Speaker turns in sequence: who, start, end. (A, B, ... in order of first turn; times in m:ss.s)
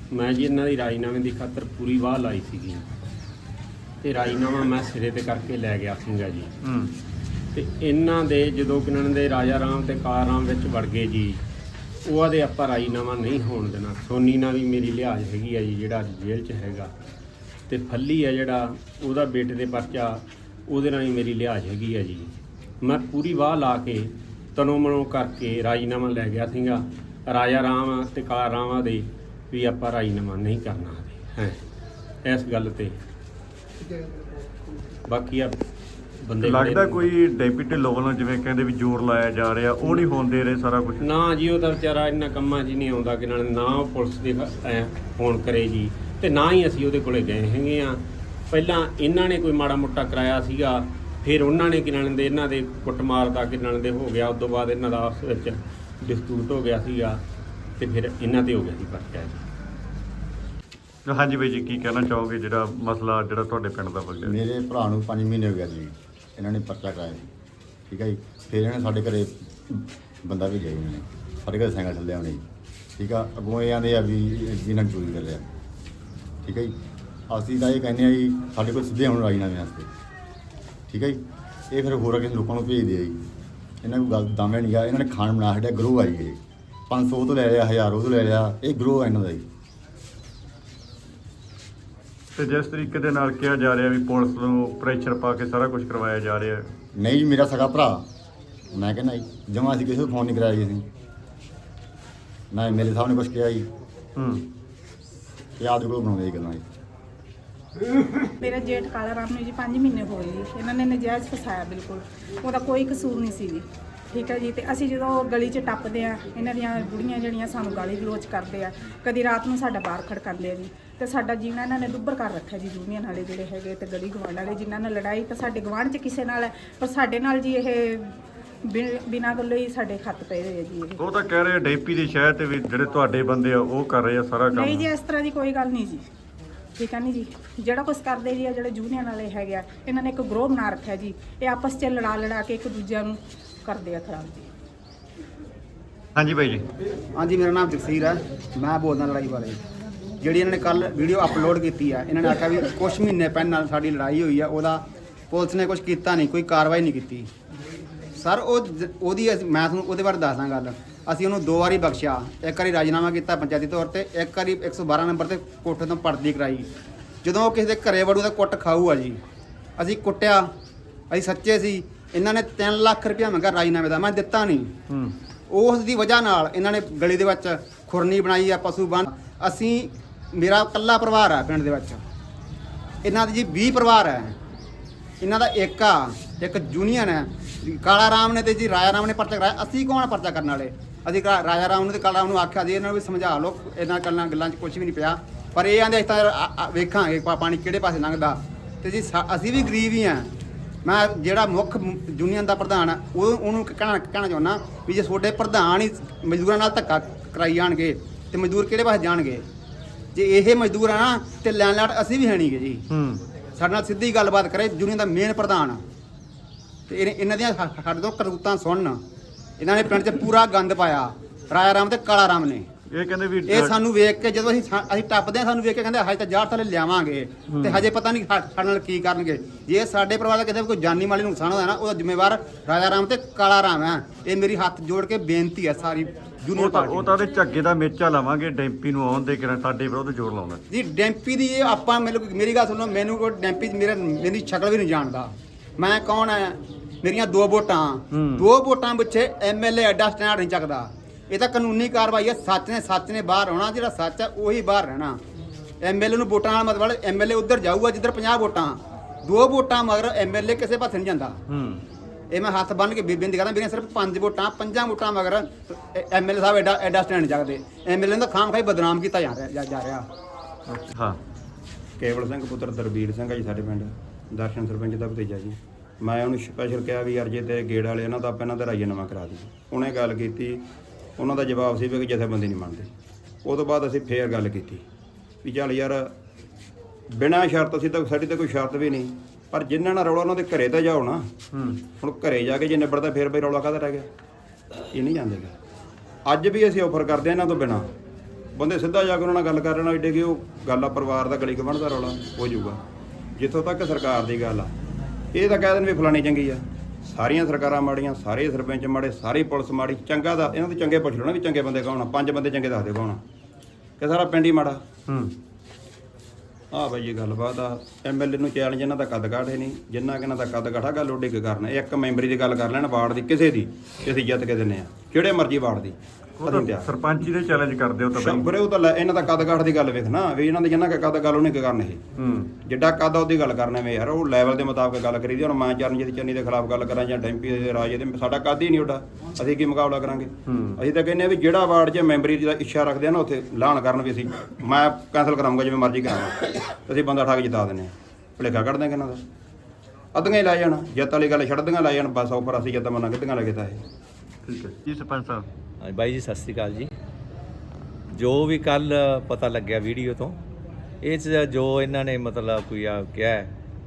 0:00.1-0:02.9 A
0:04.0-0:06.5 A
0:06.6-0:06.9 B
0:07.6-0:11.4 A
0:12.0-0:16.9 A
0:17.7-0:31.6 A
0:32.2-0:33.0 A
0:35.1-0:35.6 A
0:36.2-0:37.1 A
0:36.4-0:41.1 B
0:41.0-0:57.2 A
0:57.8-0:59.4 A
1:01.1-1:04.4 B
1:04.2-1:07.3 C
1:07.9-1:12.4 C
1:13.0-1:15.5 C
1:16.4-1:16.8 C
1:17.3-1:19.9 C
1:20.9-1:21.2 C
1:21.7-1:23.2 C
1:23.8-1:29.5 C
1:32.4-1:36.7 B
1:37.0-1:38.1 C
1:38.7-1:40.9 C
1:42.5-1:43.7 C
1:44.2-1:44.4 B
1:45.6-1:46.6 C
1:48.4-2:08.1 D
2:08.6-2:11.0 D
2:11.0-2:14.9 B
2:14.5-2:16.0 D
2:16.8-2:24.5 D
2:26.2-2:26.6 B
2:27.2-2:29.6 E
2:30.2-2:37.3 E
2:38.2-2:46.7 E
2:47.2-2:49.2 E
2:49.8-2:50.5 E
2:51.1-2:54.7 E
2:54.9-2:55.2 B
2:55.5-3:02.0 E
3:03.0-3:04.4 E
3:05.2-3:20.3 E
3:20.8-3:29.4 E
3:30.1-3:32.8 E
3:32.9-3:33.2 B
3:33.6-3:35.8 E
3:36.9-3:39.0 E
3:39.6-3:42.7 E
3:42.9-3:43.8 B
3:43.5-3:57.1 E
3:47.5-3:47.9 B
3:56.5-4:00.6 B
4:00.7-4:15.2 E
4:08.1-4:08.5 B
4:15.8-4:21.4 E
4:21.5-4:21.8 B
4:22.3-4:30.1 E
4:30.7-4:31.2 B
4:32.0-4:40.6 F
4:41.2-4:42.9 F
4:43.4-4:44.8 F
4:45.4-4:46.1 F
4:47.1-4:51.3 F
4:51.5-4:51.8 B
4:52.0-4:54.1 F
4:54.9-4:55.6 F
4:56.3-4:57.9 F
4:58.6-5:02.8 F
5:03.4-5:04.7 F
5:05.3-5:13.2 F
5:14.0-5:14.8 F
5:15.1-5:15.3 B
5:16.7-5:26.9 F
5:26.4-5:28.5 B
5:28.2-5:32.0 F
5:32.2-5:32.5 B
5:32.6-5:49.2 F
5:40.5-5:40.8 B
5:50.1-5:53.8 F
5:54.5-5:55.5 B
5:55.8-5:56.9 G
5:58.1-6:00.4 G
6:01.0-6:03.5 G